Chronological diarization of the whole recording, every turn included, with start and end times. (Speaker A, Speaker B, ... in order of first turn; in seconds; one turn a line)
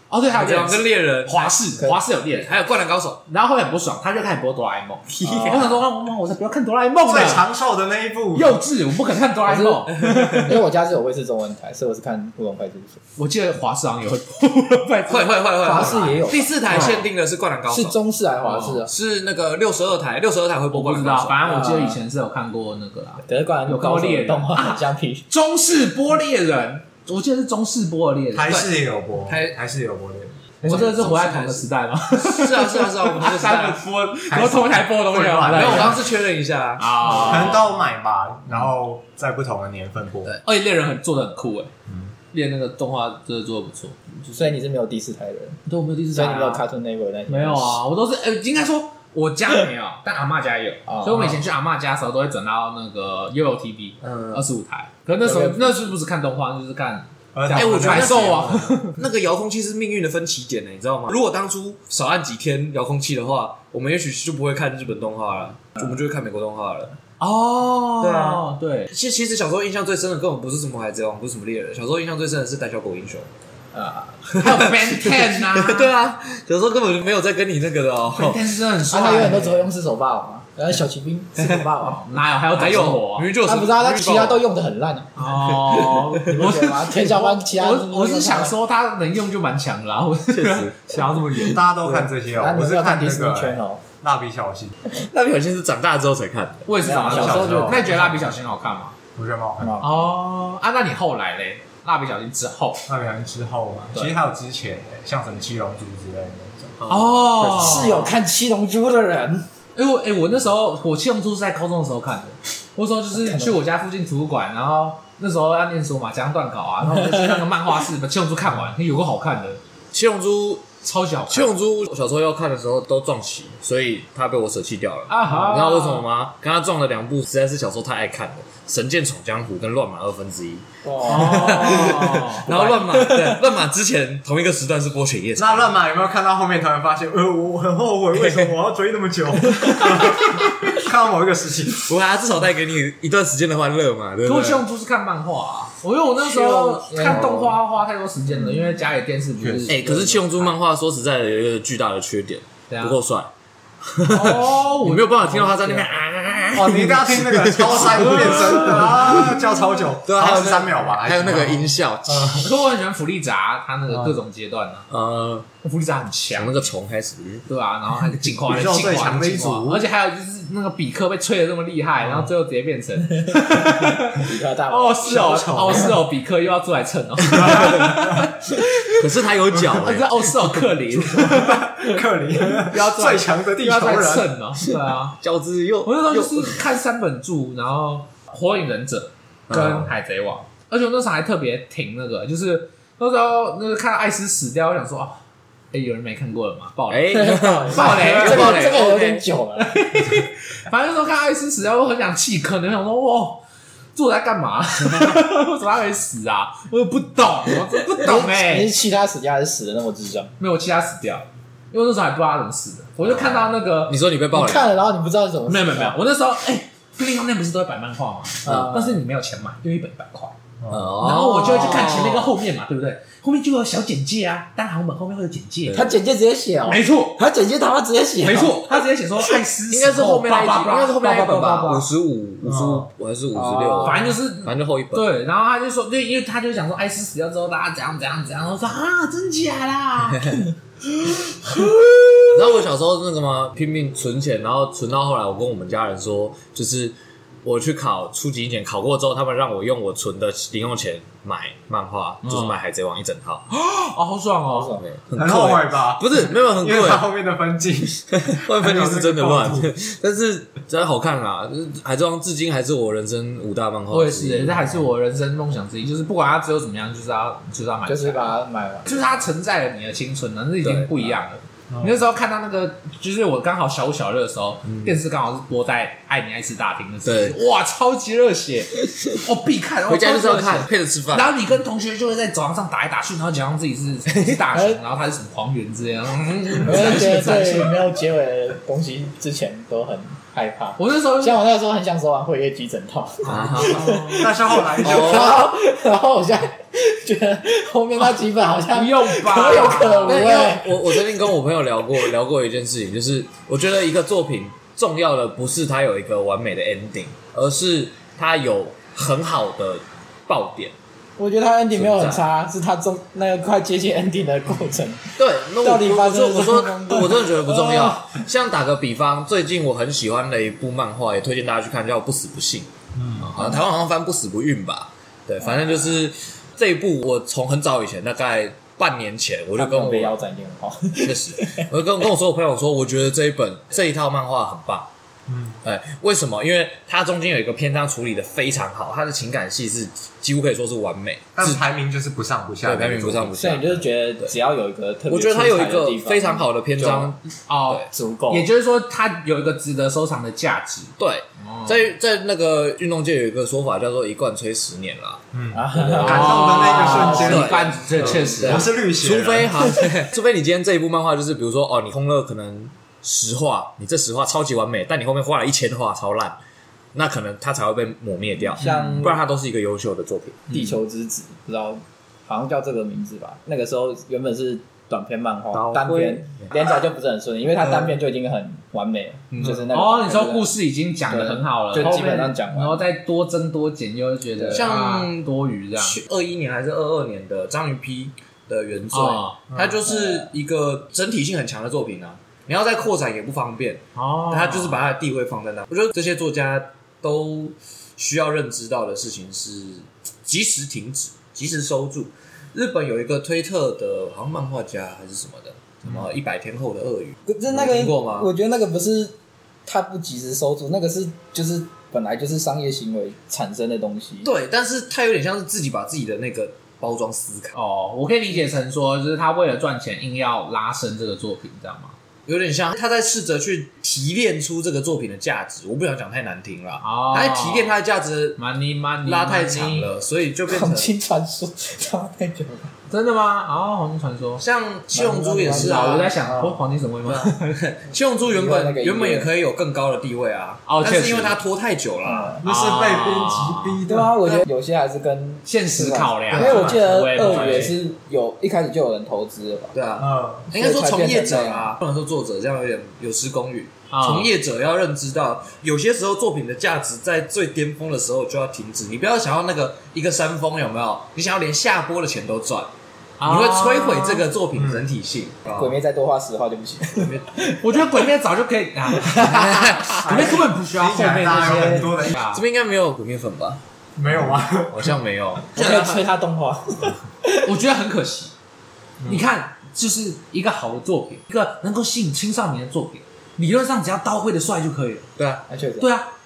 Speaker A: 0.1-2.5
Speaker B: 0.3-1.5
Speaker C: 1.8-2.0
Speaker B: 2.3-3.2
Speaker A: 3.3-7.5
Speaker B: 5.1-5.8
Speaker C: 5.2-5.6
Speaker D: 7.0-8.6
Speaker A: 8.3-10.5
Speaker C: 9.4-13.0
Speaker B: 10.0-10.5
Speaker A: 13.2-17.0
Speaker B: 15.1-18.0
Speaker C: 15.6-17.0
Speaker C: 17.7-18.9
Speaker A: 18.4-18.8
Speaker B: 18.9-21.4
Speaker A: 20.7-28.7
Speaker C: 21.4-22.0
Speaker C: 23.2-25.2
Speaker D: 28.3-31.0
Speaker B: 29.2-29.6
Speaker B: 30.6-33.8
Speaker A: 30.6-36.0
Speaker D: 34.3-36.0
Speaker B: 35.5-37.6
Speaker A: 36.8-37.6
Speaker D: 37.2-40.3
Speaker A: 40.4-41.7
Speaker A: 42.3-44.0
Speaker C: 44.3-45.6
Speaker A: 45.7-46.6
Speaker C: 46.1-47.8
Speaker A: 47.3-59.0
Speaker C: 50.9-51.4
Speaker B: 54.0-54.4
Speaker C: 55.2-55.9
Speaker D: 57.3-58.7
Speaker B: 57.5-66.9
Speaker A: 67.2-68.9
Speaker B: 68.0-73.3
Speaker C: 73.7-74.2
Speaker B: 74.3-78.4
Speaker A: 74.3-75.9
Speaker A: 78.1-79.6
Speaker C: 78.9-82.0
Speaker B: 81.4-81.7
Speaker A: 81.8-83.3
Speaker B: 82.5-84.4
Speaker C: 83.4-85.2
Speaker A: 85.2-91.6
Speaker B: 85.5-86.4
Speaker C: 86.2-88.5
Speaker B: 90.3-90.8
Speaker D: 90.4-94.7
Speaker C: 91.8-93.8
Speaker B: 94.9-97.5
Speaker A: 96.7-98.9
Speaker C: 96.8-97.9
Speaker D: 97.1-98.0
Speaker D: 99.2-99.8
Speaker C: 99.6-100.0
Speaker A: 99.8-102.8
Speaker D: 102.9-108.1
Speaker A: 106.9-108.1
Speaker C: 107.5-109.5
Speaker A: 109.7-119.6
Speaker C: 113.1-113.6
Speaker C: 116.9-117.4
Speaker B: 119.9-120.7
Speaker A: 120.8-121.5
Speaker B: 121.3-135.7
Speaker A: 125.1-126.0
Speaker C: 130.8-133.4
Speaker A: 131.0-132.8
Speaker D: 135.4-141.9
Speaker B: 138.1-138.5
Speaker B: 139.6-140.5
Speaker B: 141.8-144.6
Speaker A: 144.2-150.5
Speaker C: 146.2-147.5
Speaker B: 147.1-147.3
Speaker C: 148.4-148.8
Speaker D: 149.4-149.7
Speaker B: 149.7-153.3
Speaker A: 152.7-153.0
Speaker B: 153.8-159.5
Speaker A: 154.0-155.9
Speaker D: 156.5-162.4
Speaker A: 158.1-158.9
Speaker B: 160.0-162.5
Speaker A: 162.3-164.9
Speaker B: 164.9-165.5
Speaker A: 165.6-166.7
Speaker B: 166.3-167.4
Speaker A: 167.5-179.0
Speaker B: 168.1-168.9
Speaker D: 168.4-169.8
Speaker C: 173.3-175.9
Speaker D: 175.1-175.9
Speaker D: 177.3-178.3
Speaker B: 177.4-177.9
Speaker B: 178.8-180.3
Speaker D: 179.5-179.8
Speaker A: 179.7-182.0
Speaker D: 180.9-184.3
Speaker A: 182.6-185.2
Speaker B: 185.2-186.6
Speaker A: 185.8-195.2
Speaker B: 189.5-189.9
Speaker A: 195.7-198.6
Speaker B: 196.9-199.2
Speaker C: 197.1-199.8
Speaker A: 199.6-203.4
Speaker A: 203.9-208.7
Speaker C: 208.0-210.3
Speaker A: 210.4-213.9
Speaker B: 213.0-214.7
Speaker C: 214.3-216.0
Speaker A: 215.5-220.4
Speaker C: 218.4-219.0
Speaker B: 220.7-222.3
Speaker A: 221.0-225.9
Speaker C: 221.5-221.9
Speaker C: 225.7-228.8
Speaker A: 226.7-227.2
Speaker A: 228.2-231.8
Speaker B: 229.7-235.1
Speaker D: 232.4-232.9
Speaker C: 233.3-234.2
Speaker A: 233.8-242.0
Speaker B: 242.3-253.5
Speaker A: 252.2-252.5
Speaker A: 253.5-254.8
Speaker C: 254.5-254.8
Speaker B: 254.8-257.1
Speaker D: 255.1-259.7
Speaker B: 258.1-264.8
Speaker A: 263.9-268.3
Speaker C: 267.9-269.2
Speaker A: 268.9-287.7
Speaker B: 270.6-271.1
Speaker D: 271.7-271.9
Speaker B: 274.6-274.9
Speaker B: 277.0-277.4
Speaker B: 279.9-281.4
Speaker C: 284.5-284.8
Speaker B: 286.1-287.0
Speaker C: 286.6-301.2
Speaker A: 290.8-291.4
Speaker A: 293.2-294.3
Speaker B: 293.2-294.1
Speaker D: 293.6-295.4
Speaker B: 294.8-295.4
Speaker A: 298.7-300.3
Speaker B: 300.1-310.7
Speaker C: 311.2-318.2
Speaker B: 311.7-312.2
Speaker B: 315.2-330.1
Speaker D: 322.9-323.3
Speaker C: 329.6-331.7
Speaker B: 331.0-334.9
Speaker D: 335.3-335.6
Speaker B: 335.6-341.6
Speaker D: 341.4-343.3
Speaker B: 342.6-344.3
Speaker C: 343.4-347.1
Speaker B: 345.1-347.9
Speaker A: 347.5-351.8
Speaker C: 347.9-348.5
Speaker B: 351.0-355.2
Speaker D: 355.3-359.5
Speaker C: 355.5-357.5
Speaker B: 355.7-366.4
Speaker A: 356.0-358.7
Speaker B: 366.9-370.5
Speaker C: 368.6-369.2
Speaker C: 370.5-380.5
Speaker B: 375.5-376.5
Speaker B: 379.3-379.6
Speaker A: 379.7-386.0
Speaker C: 381.1-382.8
Speaker B: 384.5-408.3
Speaker A: 388.9-389.4
Speaker D: 389.5-389.8
Speaker C: 389.9-390.3
Speaker A: 393.9-394.8
Speaker C: 407.3-409.1
Speaker C: 409.6-414.3
Speaker B: 414.2-417.6
Speaker A: 417.5-421.9
Speaker B: 422.2-428.4
Speaker A: 426.8-427.7
Speaker A: 428.4-429.9
Speaker B: 429.0-430.9
Speaker C: 430.5-432.7
Speaker A: 432.9-434.4
Speaker B: 434.4-436.1
Speaker C: 434.9-436.2
Speaker A: 435.5-437.4
Speaker B: 437.1-442.4
Speaker C: 438.3-439.3
Speaker A: 440.6-441.4
Speaker C: 442.0-442.4
Speaker D: 442.4-444.1
Speaker A: 442.4-443.8
Speaker C: 443.9-449.7
Speaker A: 445.4-447.8
Speaker B: 446.3-447.7
Speaker B: 449.7-462.7
Speaker D: 450.0-450.5
Speaker C: 450.5-451.7
Speaker A: 453.9-454.3
Speaker A: 463.2-464.2
Speaker B: 463.2-465.8
Speaker D: 464.5-464.8
Speaker C: 465.5-468.1
Speaker B: 466.9-467.3
Speaker A: 467.6-472.4
Speaker C: 468.9-469.9
Speaker B: 469.2-470.1
Speaker D: 469.9-472.2
Speaker B: 472.3-473.6
Speaker D: 474.0-474.9
Speaker B: 474.1-475.7
Speaker C: 475.5-477.5
Speaker A: 475.6-475.9
Speaker A: 477.4-478.3
Speaker D: 479.0-479.3
Speaker A: 479.1-485.1
Speaker B: 485.2-485.4
Speaker C: 485.5-485.9
Speaker A: 485.8-486.1